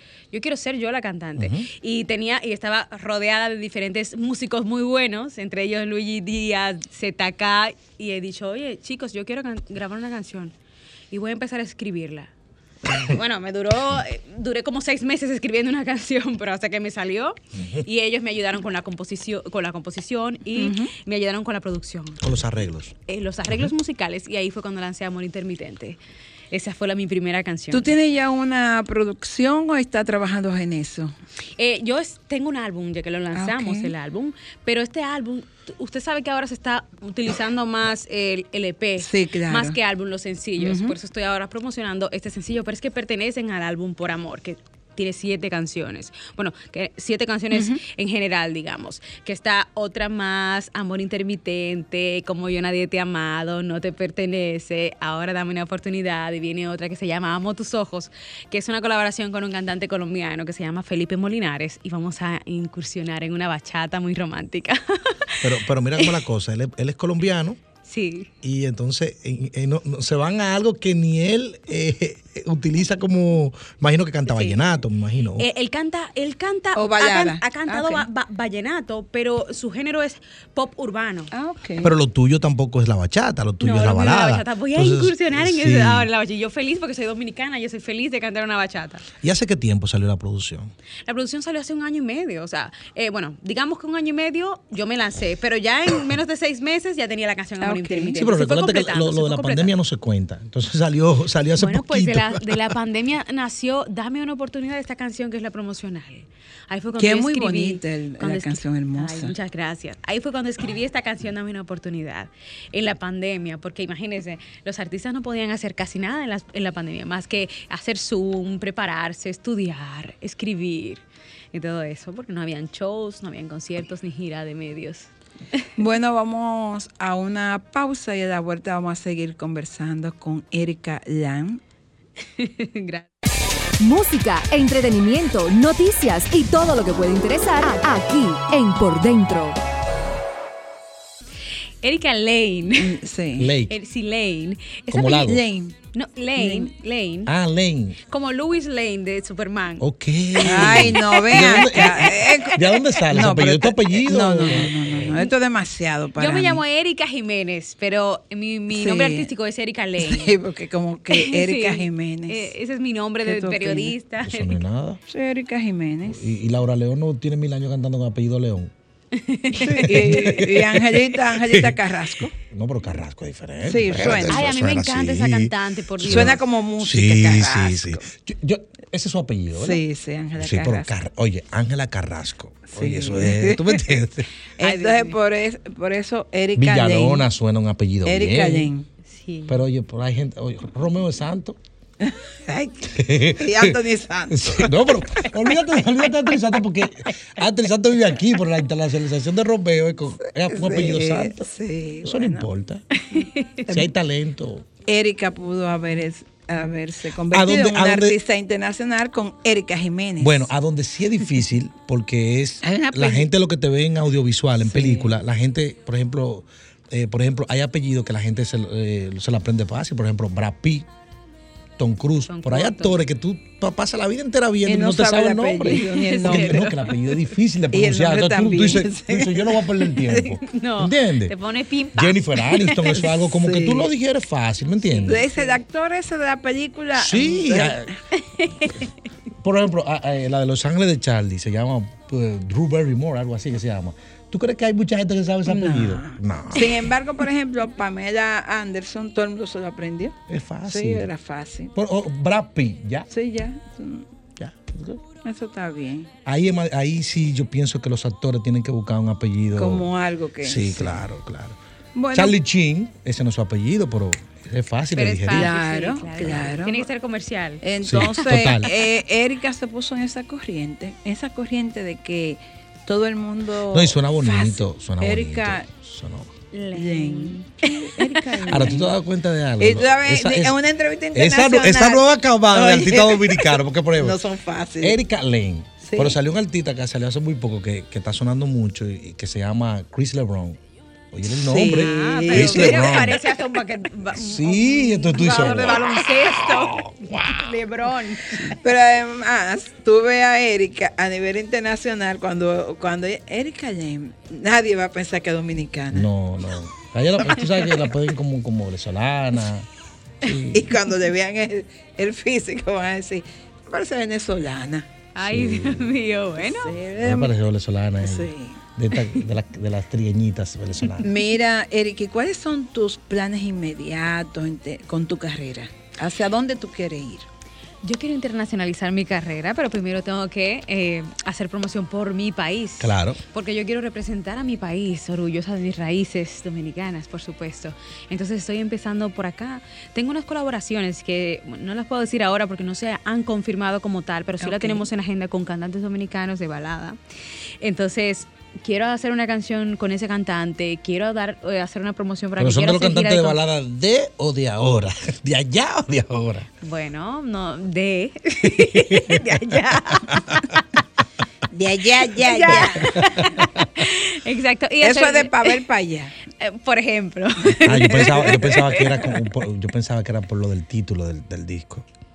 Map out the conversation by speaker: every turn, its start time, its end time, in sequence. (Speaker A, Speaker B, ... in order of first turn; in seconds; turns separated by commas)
Speaker A: 0.3-10.5, Speaker B: 1.4-1.7, Speaker A: 11.1-12.3, Speaker A: 12.9-22.3, Speaker C: 20.6-20.9, Speaker B: 22.2-22.9, Speaker A: 23.1-26.0, Speaker A: 26.5-27.9, Speaker C: 27.7-31.1, Speaker A: 31.6-66.2, Speaker C: 33.3-33.9, Speaker C: 39.0-39.8, Speaker C: 40.6-40.9, Speaker C: 47.5-47.8, Speaker B: 65.4-67.6, Speaker A: 67.8-68.3, Speaker B: 68.4-75.5, Speaker A: 74.3-74.7, Speaker A: 75.4-81.3, Speaker C: 76.8-78.1, Speaker C: 81.3-81.9, Speaker B: 81.8-86.1, Speaker A: 83.6-89.1, Speaker B: 89.2-90.7, Speaker A: 91.1-99.7, Speaker C: 97.6-98.2, Speaker B: 98.2-102.7, Speaker A: 101.5-125.6, Speaker C: 107.0-109.3, Speaker C: 125.8-131.6, Speaker A: 132.4-133.1, Speaker D: 133.8-139.6, Speaker A: 141.8-143.0, Speaker C: 142.8-143.5, Speaker B: 143.4-143.8, Speaker A: 143.7-145.2, Speaker B: 144.9-145.5, Speaker C: 145.0-145.8, Speaker A: 145.9-147.3, Speaker C: 146.4-146.7, Speaker B: 147.3-148.0, Speaker A: 148.1-153.0, Speaker B: 149.8-155.2, Speaker C: 150.4-156.6, Speaker A: 154.5-155.3, Speaker A: 156.2-160.4, Speaker C: 158.7-159.3, Speaker C: 160.0-162.5, Speaker A: 161.1-164.6, Speaker C: 163.2-163.9, Speaker B: 164.2-165.0, Speaker C: 165.1-166.3, Speaker B: 166.1-168.7, Speaker A: 169.1-170.5, Speaker C: 169.5-172.3, Speaker B: 169.7-171.8, Speaker B: 172.3-179.8, Speaker C: 173.7-174.5, Speaker A: 174.1-176.4, Speaker C: 176.0-178.1, Speaker C: 179.5-180.9, Speaker B: 180.4-184.3, Speaker C: 182.7-184.0, Speaker C: 184.6-187.3, Speaker A: 184.6-185.2, Speaker B: 186.6-188.7, Speaker C: 188.1-188.9, Speaker A: 189.1-189.6, Speaker B: 189.5-191.6, Speaker C: 192.0-194.7, Speaker B: 192.9-201.5, Speaker C: 200.2-202.5, Speaker B: 202.0-202.9, Speaker A: 202.9-203.8, Speaker B: 203.7-204.7, Speaker C: 204.9-210.5, Speaker B: 207.3-208.2, Speaker B: 210.2-220.9, Speaker C: 212.6-213.3, Speaker C: 214.7-215.1, Speaker B: 221.8-231.3, Speaker A: 222.3-223.0, Speaker C: 224.7-226.8, Speaker A: 225.7-227.3, Speaker C: 227.7-230.3, Speaker A: 230.4-233.1, Speaker B: 231.9-235.3, Speaker C: 233.0-233.9, Speaker A: 234.8-235.6, Speaker C: 235.1-237.9, Speaker B: 236.9-237.9, Speaker A: 238.1-238.9, Speaker B: 239.4-246.9, Speaker C: 245.5-250.2, Speaker B: 250.3-251.1, Speaker C: 250.7-251.7, Speaker B: 251.8-253.1, Speaker C: 253.1-254.1, Speaker B: 254.4-255.0, Speaker C: 255.2-256.1, Speaker B: 256.2-259.9, Speaker C: 259.6-261.1, Speaker B: 260.4-261.6, Speaker C: 261.9-262.4, Speaker B: 262.1-265.6, Speaker A: 264.9-268.9, Speaker C: 265.3-266.9, Speaker C: 267.6-275.7, Speaker B: 267.8-268.7, Speaker B: 273.7-276.4, Speaker A: 276.5-278.8, Speaker C: 276.7-278.9, Speaker B: 278.5-280.6, Speaker C: 279.6-285.0, Speaker B: 281.1-284.2, Speaker B: 284.8-290.6, Speaker C: 285.8-286.2, Speaker B: 291.1-293.4, Speaker C: 291.3-293.1, Speaker A: 291.6-298.6, Speaker B: 294.1-297.5, Speaker C: 295.2-295.6, Speaker C: 298.4-306.1, Speaker B: 305.9-309.7, Speaker B: 310.2-310.8, Speaker C: 310.5-314.9, Speaker A: 315.1-316.8, Speaker B: 315.2-316.0, Speaker C: 316.4-317.4, Speaker B: 317.0-321.1, Speaker C: 318.0-318.6, Speaker C: 321.0-327.3, Speaker A: 327.8-347.0, Speaker B: 332.8-333.2, Speaker C: 344.4-344.8, Speaker A: 347.6-353.4, Speaker B: 352.4-356.5, Speaker A: 356.6-360.6, Speaker B: 358.4-359.6, Speaker B: 360.1-360.4, Speaker C: 361.5-363.4, Speaker A: 362.2-365.6, Speaker B: 362.7-363.9, Speaker C: 364.8-366.1, Speaker A: 366.3-369.2, Speaker B: 367.6-371.9, Speaker C: 367.7-368.4